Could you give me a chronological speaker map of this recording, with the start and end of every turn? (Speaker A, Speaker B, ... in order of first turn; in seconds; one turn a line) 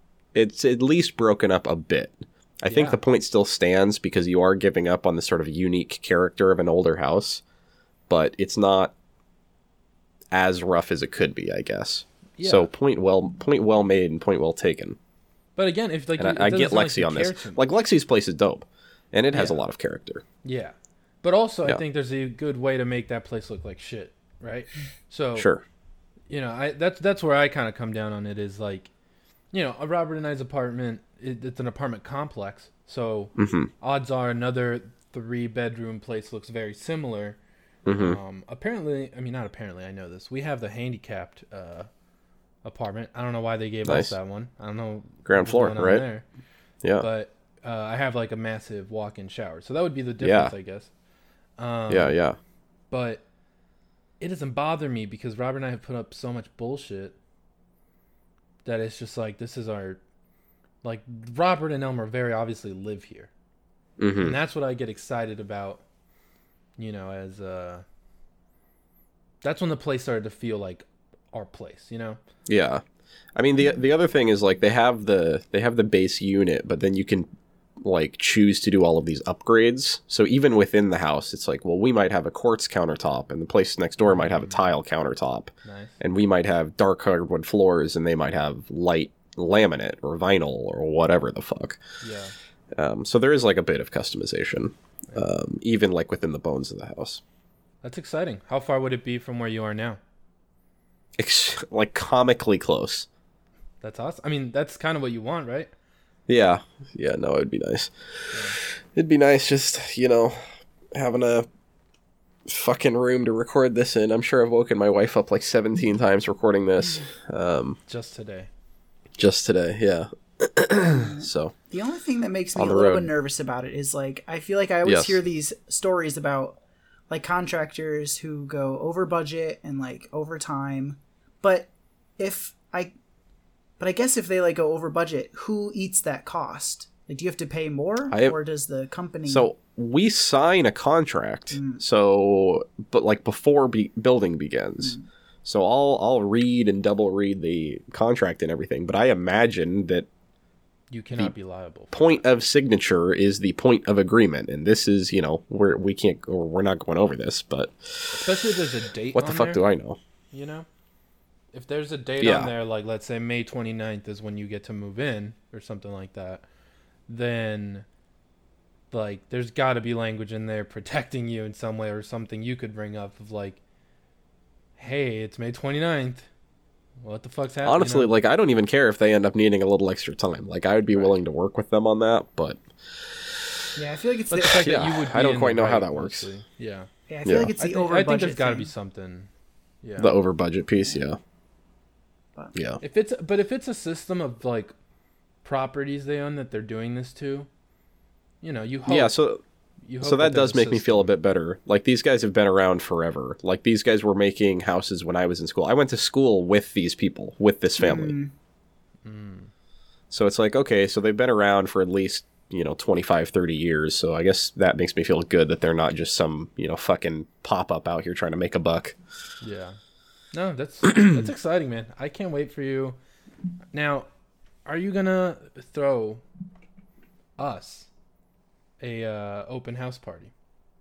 Speaker A: 0.3-7.4
Speaker B: 2.7-3.0
Speaker A: 8.1-8.9
Speaker A: 10.3-15.0
Speaker B: 12.4-12.7
Speaker B: 15.6-17.6
Speaker A: 16.2-20.2
Speaker B: 19.3-19.6
Speaker B: 20.4-25.5
Speaker A: 25.4-25.6
Speaker B: 26.3-28.9
Speaker B: 29.5-37.4
Speaker A: 33.4-33.7
Speaker A: 37.9-38.2
Speaker B: 37.9-41.9
Speaker B: 42.6-46.2
Speaker A: 43.8-44.1
Speaker A: 45.2-46.0
Speaker B: 47.0-50.9
Speaker A: 50.2-50.5
Speaker B: 51.6-52.1
Speaker A: 51.9-52.4
Speaker B: 52.9-53.2
Speaker B: 54.2-57.2
Speaker B: 58.6-60.0
Speaker B: 60.8-63.3
Speaker A: 64.0-64.4
Speaker B: 64.2-65.8
Speaker B: 66.8-67.8
Speaker B: 69.4-72.2
Speaker A: 72.5-72.8
Speaker A: 73.3-77.3
Speaker A: 77.8-91.8
Speaker B: 84.0-84.6
Speaker B: 85.6-86.0
Speaker B: 92.0-92.3
Speaker A: 92.8-97.2
Speaker B: 97.8-100.0
Speaker A: 101.2-103.1
Speaker B: 103.8-105.7
Speaker A: 106.3-108.4
Speaker B: 108.3-108.6
Speaker A: 108.9-110.4
Speaker A: 110.9-111.5
Speaker A: 112.5-117.8
Speaker B: 117.9-118.5
Speaker A: 119.2-121.5
Speaker C: 120.8-126.6
Speaker A: 122.5-123.1
Speaker A: 124.8-125.2
Speaker C: 127.1-132.9
Speaker C: 133.8-139.5
Speaker A: 138.1-138.3
Speaker A: 139.3-150.1
Speaker C: 141.5-141.8
Speaker B: 150.9-152.2
Speaker A: 151.9-158.4
Speaker B: 158.1-159.6
Speaker A: 159.1-160.0
Speaker B: 160.3-160.7
Speaker B: 161.5-166.4
Speaker A: 162.2-162.5
Speaker B: 167.1-167.8
Speaker B: 168.9-173.6
Speaker B: 174.8-176.3
Speaker B: 177.0-178.1
Speaker A: 177.6-183.7
Speaker B: 180.9-181.2
Speaker C: 183.8-184.7
Speaker B: 184.3-186.9
Speaker A: 184.5-186.3
Speaker C: 187.1-188.7
Speaker A: 187.2-187.5
Speaker B: 187.6-189.3
Speaker B: 189.8-190.1
Speaker A: 190.0-191.2
Speaker A: 192.5-192.8
Speaker B: 192.8-194.7
Speaker B: 195.4-197.5
Speaker B: 198.4-199.1
Speaker A: 198.9-199.4
Speaker B: 199.8-201.1
Speaker A: 200.0-208.2
Speaker C: 207.8-208.3
Speaker B: 209.0-209.5
Speaker A: 210.1-219.0
Speaker B: 219.4-219.8
Speaker B: 220.3-223.0
Speaker B: 223.7-224.1
Speaker B: 224.7-226.2
Speaker B: 227.4-227.9
Speaker B: 228.8-230.3